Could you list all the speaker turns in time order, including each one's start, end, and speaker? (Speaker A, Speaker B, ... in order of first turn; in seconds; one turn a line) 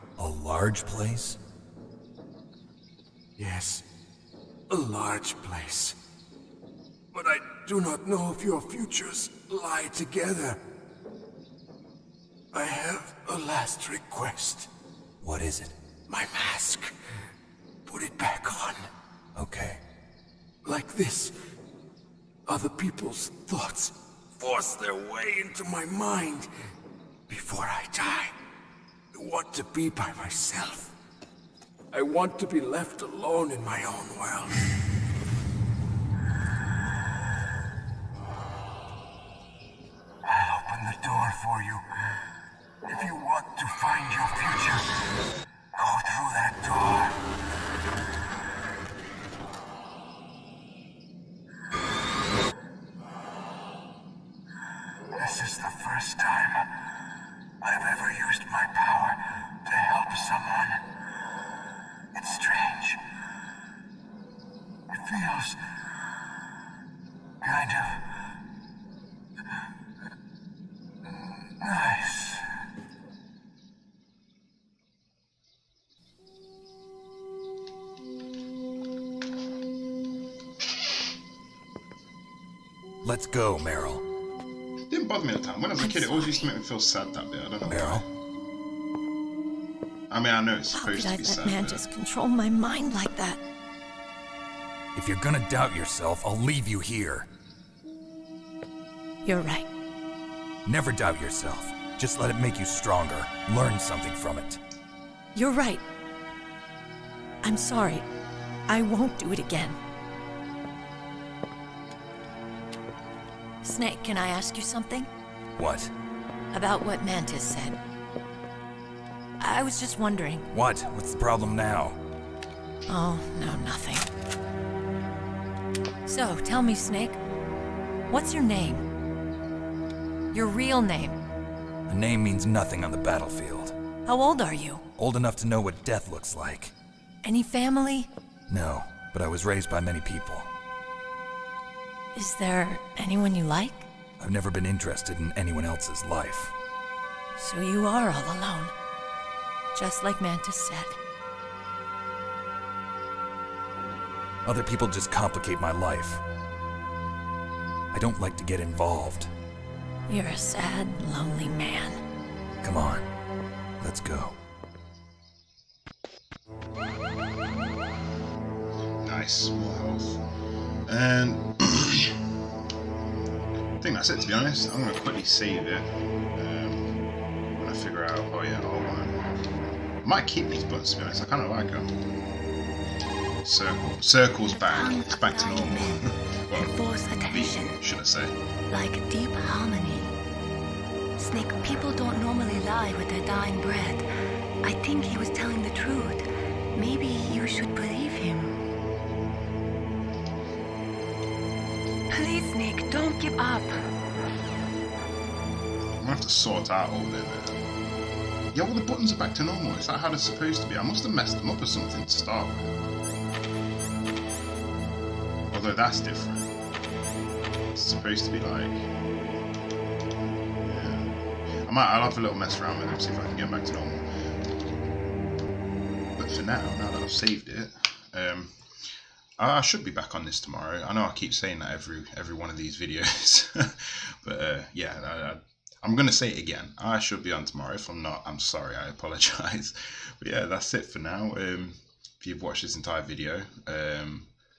Speaker A: 0.2-1.4
Speaker B: 3.4-3.8
Speaker B: 4.7-6.0
Speaker B: 7.1-10.6
Speaker B: 12.5-14.7
Speaker A: 15.2-15.7
Speaker B: 16.1-16.9
Speaker B: 17.9-18.9
Speaker A: 19.3-19.8
Speaker B: 20.6-21.3
Speaker B: 22.4-26.5
Speaker B: 27.3-28.3
Speaker B: 29.1-30.9
Speaker B: 31.9-34.6
Speaker B: 40.2-41.8
Speaker B: 42.9-44.9
Speaker B: 45.7-47.2
Speaker B: 55.2-56.7
Speaker B: 57.6-60.8
Speaker B: 62.1-63.0
Speaker B: 64.9-65.6
Speaker B: 67.4-68.0
Speaker B: 71.6-72.4
Speaker A: 83.0-84.0
Speaker C: 84.9-88.0
Speaker D: 85.8-86.5
Speaker A: 87.6-88.0
Speaker C: 90.1-91.8
Speaker D: 90.7-93.4
Speaker A: 94.9-97.3
Speaker D: 99.2-99.7
Speaker A: 100.6-104.6
Speaker D: 105.3-105.8
Speaker D: 107.4-108.0
Speaker D: 108.7-109.8
Speaker D: 113.6-115.1
Speaker A: 115.6-115.9
Speaker D: 116.5-117.8
Speaker D: 119.4-120.5
Speaker A: 120.5-122.0
Speaker D: 122.9-124.1
Speaker D: 126.0-127.2
Speaker D: 128.1-128.8
Speaker D: 130.3-131.2
Speaker A: 131.9-133.7
Speaker D: 134.0-134.8
Speaker A: 135.0-136.7
Speaker D: 137.2-138.1
Speaker A: 138.5-140.5
Speaker D: 142.1-143.9
Speaker A: 144.2-146.5
Speaker D: 147.4-148.7
Speaker D: 149.7-151.0
Speaker A: 154.4-156.2
Speaker A: 157.9-159.3
Speaker D: 160.1-161.9
Speaker A: 162.6-163.0
Speaker A: 163.8-164.4
Speaker C: 169.0-170.2
Speaker C: 170.9-172.1
Speaker C: 173.8-176.9
Speaker C: 177.5-179.2
Speaker C: 180.0-181.9
Speaker C: 183.4-188.3
Speaker E: 184.5-187.8
Speaker E: 188.7-190.2
Speaker E: 191.2-194.0
Speaker E: 194.6-196.2
Speaker E: 196.7-198.6
Speaker E: 202.1-203.8
Speaker C: 206.0-207.6
Speaker C: 208.5-212.8
Speaker C: 215.5-216.5
Speaker C: 217.7-218.8
Speaker C: 220.6-221.1
Speaker C: 221.6-224.1
Speaker C: 226.2-228.6
Speaker C: 229.4-244.3